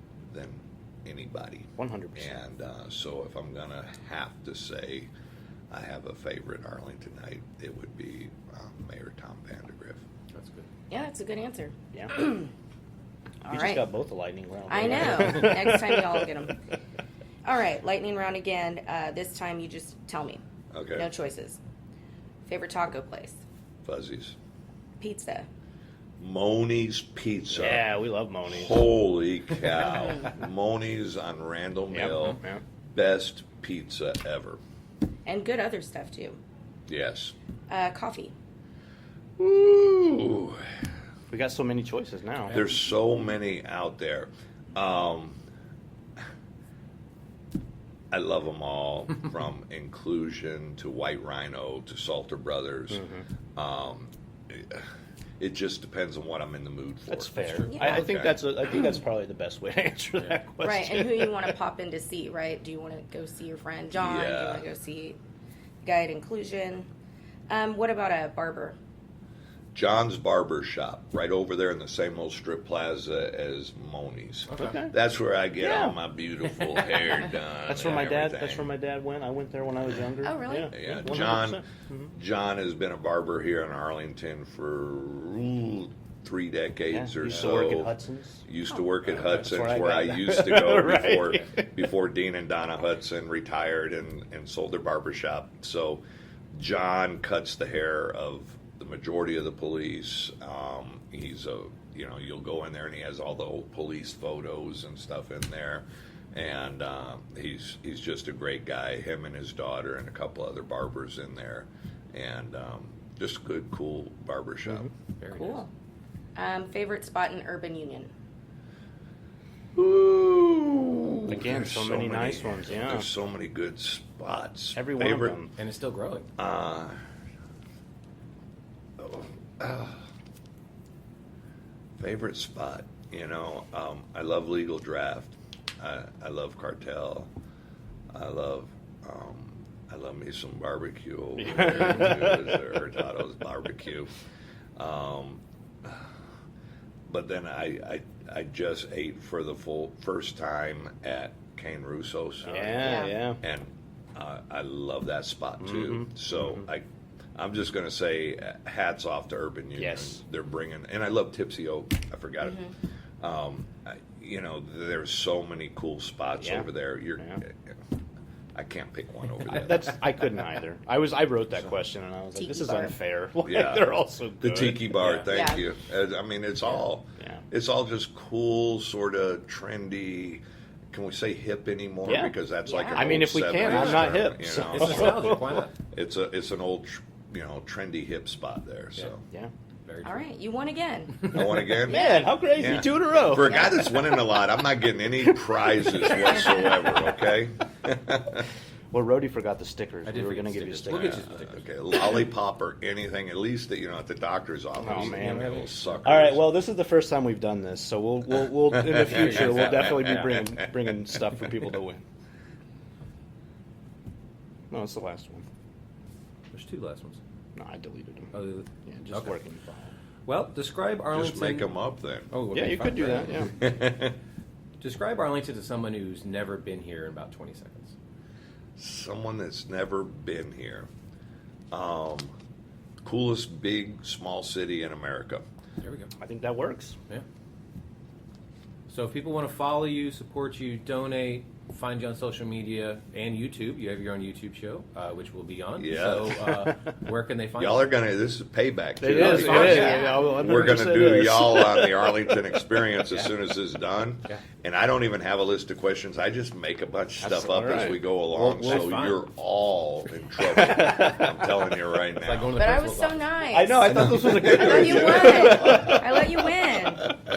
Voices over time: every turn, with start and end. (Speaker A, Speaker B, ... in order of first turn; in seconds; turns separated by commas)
Speaker A: 0.3-5.1, Speaker B: 1.8-2.4, Speaker A: 5.7-10.0, Speaker C: 10.3-10.7, Speaker D: 10.9-12.5, Speaker D: 13.4-13.8, Speaker B: 13.5-16.2, Speaker D: 14.7-16.6, Speaker D: 17.4-20.4, Speaker A: 20.7-21.1, Speaker D: 20.9-21.6, Speaker D: 22.5-23.4, Speaker A: 23.9-24.4, Speaker D: 25.0-25.5, Speaker A: 26.2-27.9, Speaker B: 27.5-28.8, Speaker A: 28.5-32.4, Speaker B: 31.9-32.6, Speaker A: 32.9-34.6, Speaker D: 35.3-36.4, Speaker A: 36.9-37.4, Speaker D: 37.7-38.3, Speaker A: 39.4-40.7, Speaker B: 41.3-42.6, Speaker A: 42.5-45.4, Speaker A: 48.1-54.9, Speaker B: 52.9-53.2, Speaker A: 55.4-58.4, Speaker B: 57.1-61.5, Speaker C: 57.4-57.7, Speaker D: 60.6-65.2, Speaker A: 64.0-64.7, Speaker D: 65.8-66.9, Speaker D: 67.5-68.8, Speaker A: 69.7-78.7, Speaker B: 74.6-74.9, Speaker B: 75.6-76.0, Speaker B: 77.7-82.1, Speaker D: 80.2-81.2, Speaker A: 80.7-87.9, Speaker B: 86.9-88.4, Speaker A: 88.5-96.0, Speaker B: 89.2-91.7, Speaker A: 96.5-114.9, Speaker C: 115.2-115.6, Speaker D: 115.3-115.7, Speaker D: 116.4-118.1, Speaker A: 119.8-125.4, Speaker B: 121.3-123.1, Speaker B: 124.8-125.5, Speaker C: 125.6-126.3, Speaker A: 126.4-127.0, Speaker A: 129.0-130.1, Speaker A: 132.0-137.3, Speaker A: 138.1-144.1, Speaker B: 141.6-142.0, Speaker A: 144.8-146.1, Speaker A: 147.1-167.8, Speaker B: 152.5-153.4, Speaker C: 152.5-152.9, Speaker D: 152.8-153.2, Speaker B: 155.6-156.6, Speaker B: 159.8-160.2, Speaker B: 166.4-167.4, Speaker A: 168.6-170.0, Speaker B: 169.4-174.9, Speaker D: 172.4-172.9, Speaker A: 173.4-189.2, Speaker C: 175.0-175.3, Speaker D: 175.3-175.6, Speaker B: 182.1-182.3, Speaker D: 182.7-183.2, Speaker B: 182.9-185.6, Speaker C: 183.6-184.1, Speaker C: 184.6-185.7, Speaker C: 189.8-190.2, Speaker D: 190.0-192.2, Speaker A: 191.3-198.5, Speaker B: 191.7-193.7, Speaker B: 198.9-201.2, Speaker C: 200.1-201.7, Speaker A: 200.9-206.5, Speaker C: 204.8-206.2, Speaker B: 204.8-212.0, Speaker A: 208.9-209.9, Speaker C: 209.1-209.5, Speaker B: 214.7-215.4, Speaker C: 216.5-217.2, Speaker B: 217.6-219.9, Speaker C: 218.3-219.3, Speaker C: 220.3-221.7, Speaker A: 221.1-222.3, Speaker C: 222.3-223.7, Speaker B: 222.5-223.6, Speaker A: 223.5-224.2, Speaker C: 224.8-227.9, Speaker A: 228.8-230.9, Speaker A: 231.7-232.3, Speaker A: 233.0-235.4, Speaker C: 235.8-236.1, Speaker B: 236.2-237.0, Speaker C: 238.9-247.9, Speaker A: 245.8-246.6, Speaker A: 247.6-262.7, Speaker B: 249.0-252.2, Speaker C: 249.1-250.4, Speaker D: 249.7-250.3, Speaker B: 257.2-258.0, Speaker C: 258.3-259.2, Speaker B: 260.8-261.3, Speaker C: 262.2-263.3, Speaker D: 262.5-267.1, Speaker B: 263.5-266.2, Speaker C: 264.1-264.9, Speaker A: 264.1-266.0